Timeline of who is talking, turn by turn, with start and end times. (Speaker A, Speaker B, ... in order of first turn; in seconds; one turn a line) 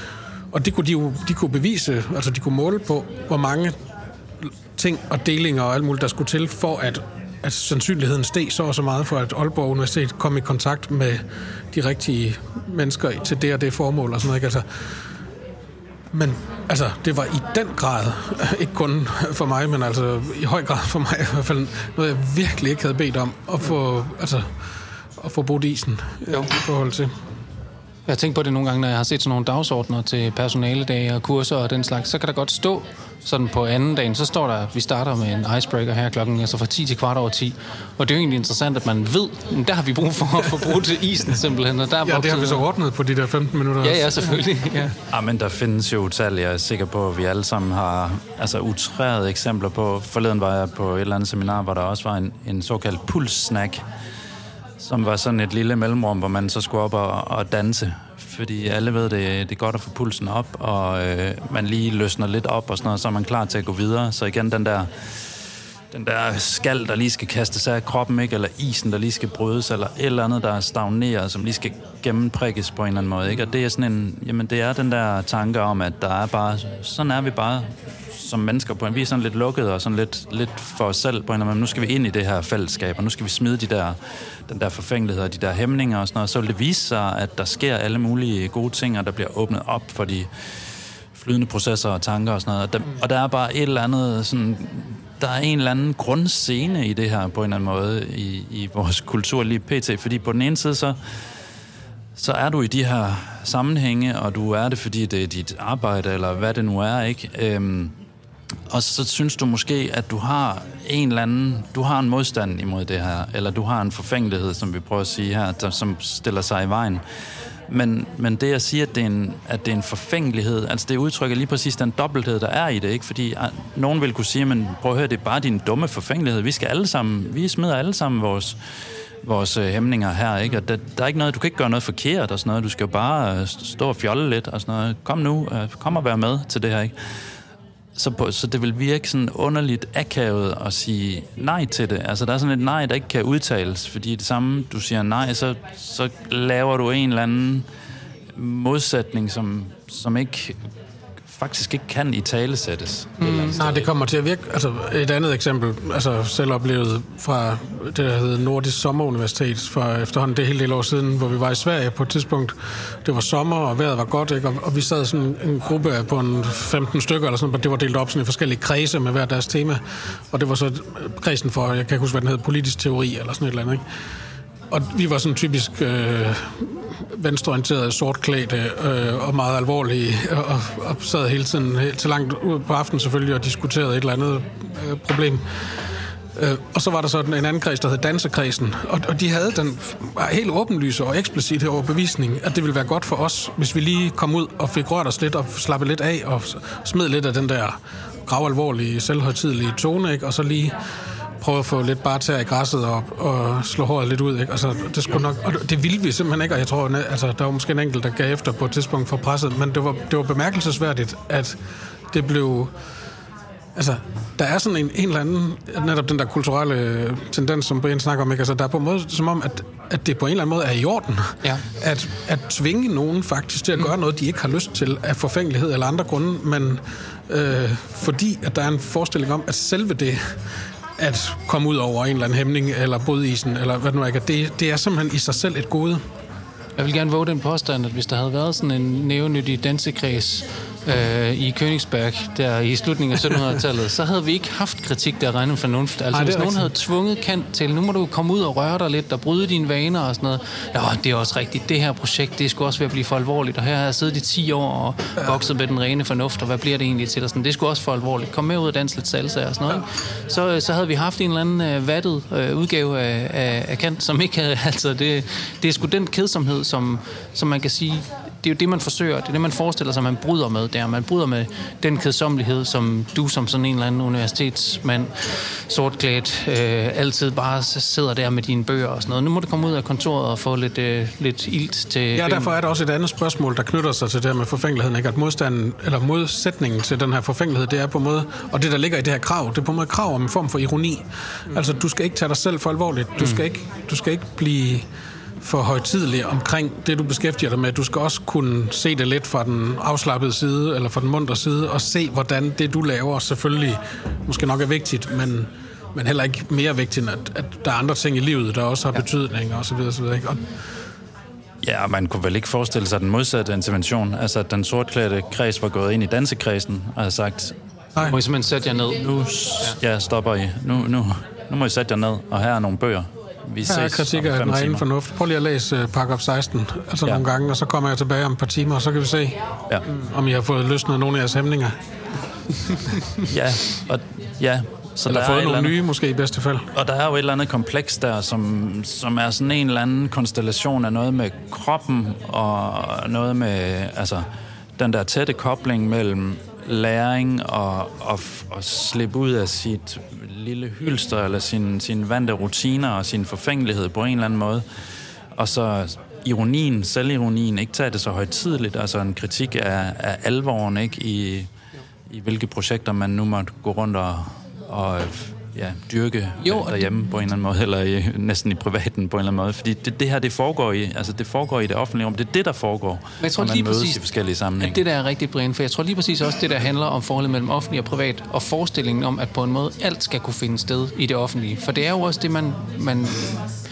Speaker A: 0.5-3.7
Speaker A: 4.4-14.8
Speaker A: 16.1-24.5
Speaker A: 25.2-27.1
Speaker B: 28.1-42.6
Speaker A: 42.0-44.4
Speaker B: 43.8-44.9
Speaker C: 45.1-53.8
Speaker C: 54.8-65.1
Speaker C: 65.9-90.3
Speaker C: 91.1-101.0
Speaker C: 102.2-107.9
Speaker C: 108.7-117.0
Speaker C: 117.7-128.6
Speaker C: 129.2-136.9
Speaker C: 137.9-147.7
Speaker C: 148.3-150.6
Speaker C: 151.3-153.9
Speaker B: 153.2-153.6
Speaker A: 153.6-173.8
Speaker A: 174.7-185.7
Speaker A: 186.3-200.7
Speaker A: 201.4-211.6
Speaker A: 212.1-212.7
Speaker A: 213.7-230.4
Speaker A: 231.0-236.0
Speaker B: 236.8-282.5
Speaker A: 246.1-246.7
Speaker A: 282.1-294.9
Speaker A: 295.4-310.5
Speaker C: 311.6-317.5
Speaker B: 318.0-319.0
Speaker C: 319.0-324.8
Speaker A: 323.7-331.7
Speaker C: 333.2-335.8
Speaker A: 335.1-336.7
Speaker C: 336.7-344.2
Speaker C: 344.8-354.6
Speaker C: 355.4-361.5
Speaker C: 362.1-374.8
Speaker B: 366.4-366.9
Speaker B: 373.2-374.0
Speaker B: 374.6-383.4